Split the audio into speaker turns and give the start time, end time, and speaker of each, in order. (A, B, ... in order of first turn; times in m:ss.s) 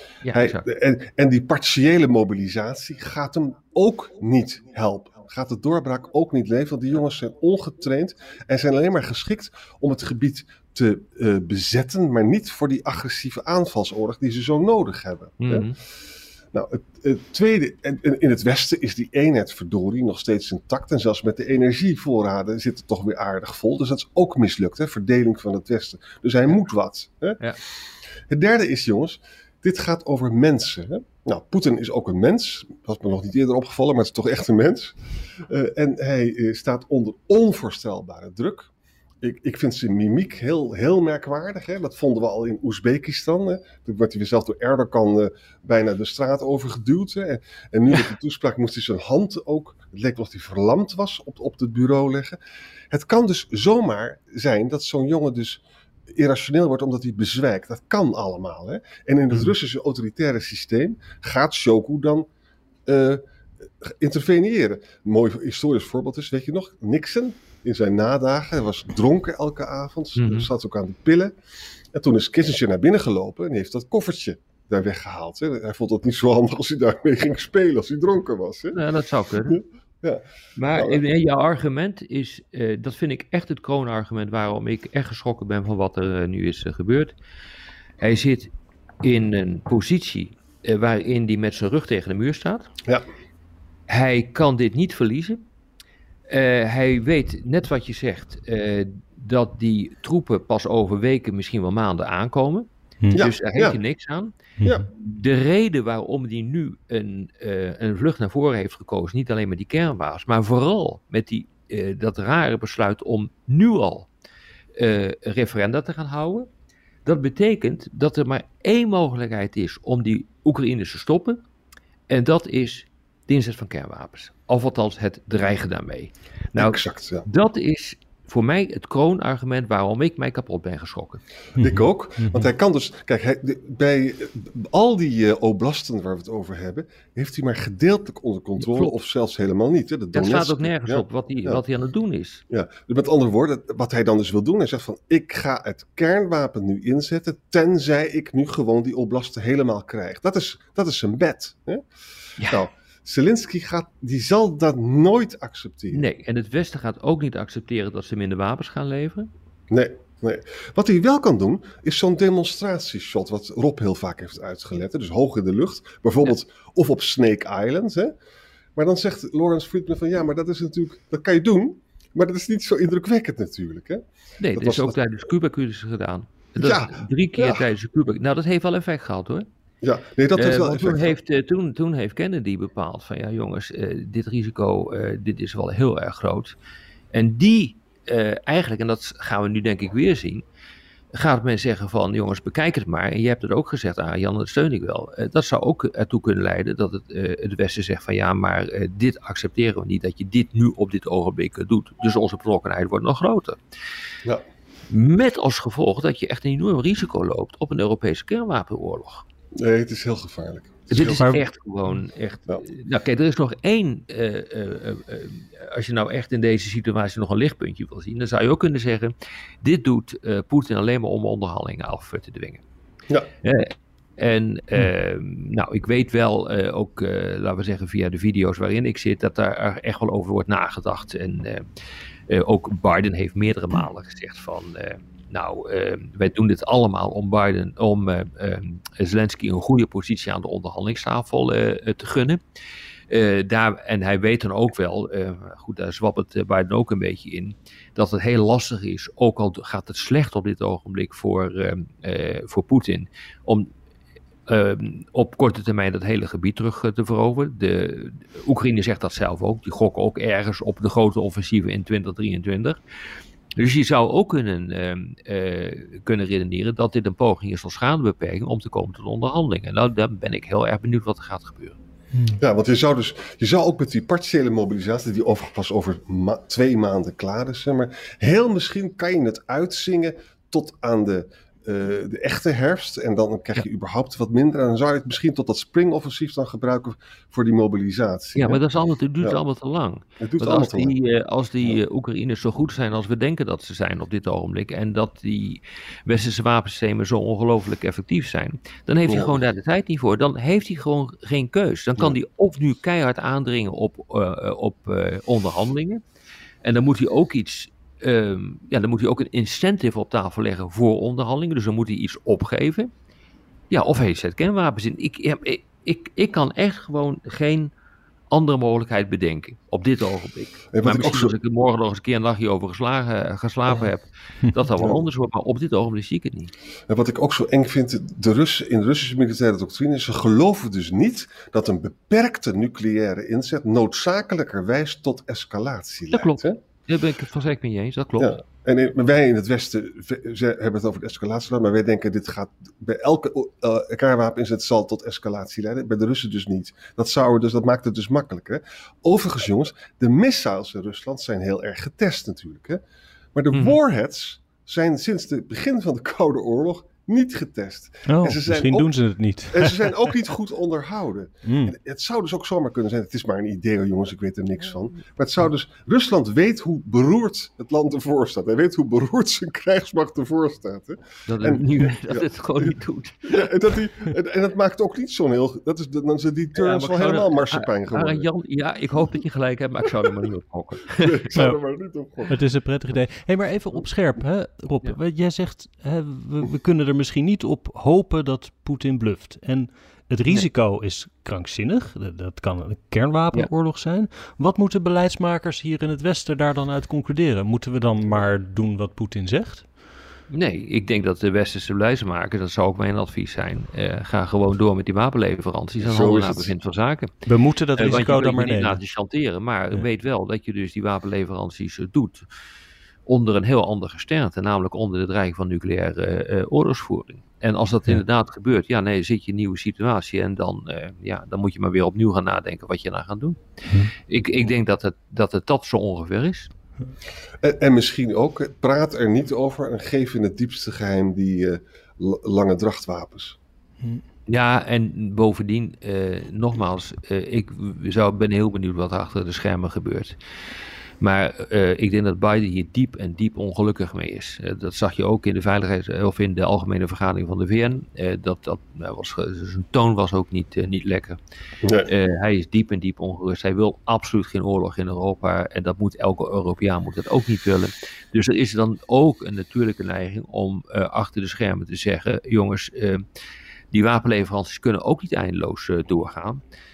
0:00.2-0:00.6 A
0:00.3-0:15.7 B
0:15.4-0:15.8 A
0:16.5-0:27.4 B
0:28.3-0:38.7 B
0:39.2-0:52.4 B
0:52.9-1:02.3 B
1:02.9-1:11.3 B
1:10.2-1:10.5 A
1:11.9-1:18.8 B
1:18.7-1:19.6 A
1:19.5-1:20.2 B
1:20.6-1:27.1 A
1:20.7-1:21.0 B
1:28.0-1:28.5 A
1:29.0-1:32.7 A
1:33.9-1:35.4 A
1:36.3-1:44.3 A
1:43.1-1:43.8 B
1:44.9-1:54.1 A
1:54.8-1:56.5 A
1:57.0-2:01.4 A
2:02.1-2:11.2 A
2:06.6-2:07.2 B
2:11.5-2:21.6 B
2:11.6-2:12.5 C
2:18.6-2:18.9 A
2:20.1-2:22.4 A
2:22.5-2:31.8 B
2:32.4-2:32.6 A
2:32.4-2:36.0 B
2:35.9-2:39.3 A
2:39.7-2:48.1 B
2:48.8-2:55.0 B
2:54.4-2:59.4 A
2:56.6-2:57.6 B
2:59.8-3:01.2 B
3:00.3-3:06.5 A
3:07.1-3:10.4 A
3:11.1-3:23.6 A
3:24.9-3:29.2 A
3:29.5-3:31.2 B
3:30.9-3:42.6 A
3:31.0-3:31.4 C
3:43.4-3:51.6 A
3:52.3-4:02.4 A
4:03.1-4:13.7 A
4:14.5-4:22.8 A
4:23.6-4:31.8 A
4:32.1-4:32.4 C
4:32.4-4:48.6 B
4:48.4-5:06.0 A
4:50.2-4:50.9 B
4:59.1-4:59.3 B
5:06.6-5:12.9 A
5:13.7-5:17.7 A
5:18.3-5:26.5 A
5:20.7-5:21.3 B
5:24.8-5:25.0 B
5:26.9-5:36.6 B
5:36.1-5:38.4 A
5:38.2-5:52.8 B
5:53.3-6:18.2 B
5:53.5-5:53.8 A
5:58.1-5:59.9 C
6:01.4-6:01.7 C
6:11.3-6:13.5 A
6:16.6-6:21.3 A
6:21.0-6:22.4 B
6:22.3-6:39.7 C
6:40.3-6:52.2 A
6:45.8-6:46.5 B
6:47.2-6:48.8 C
6:53.0-7:03.4 A
7:04.0-7:06.5 A
7:07.4-7:13.4 B
7:14.3-7:20.2 A
7:21.0-7:31.2 A
7:31.6-7:31.9 B
7:31.8-7:43.0 A
7:43.7-7:46.4 A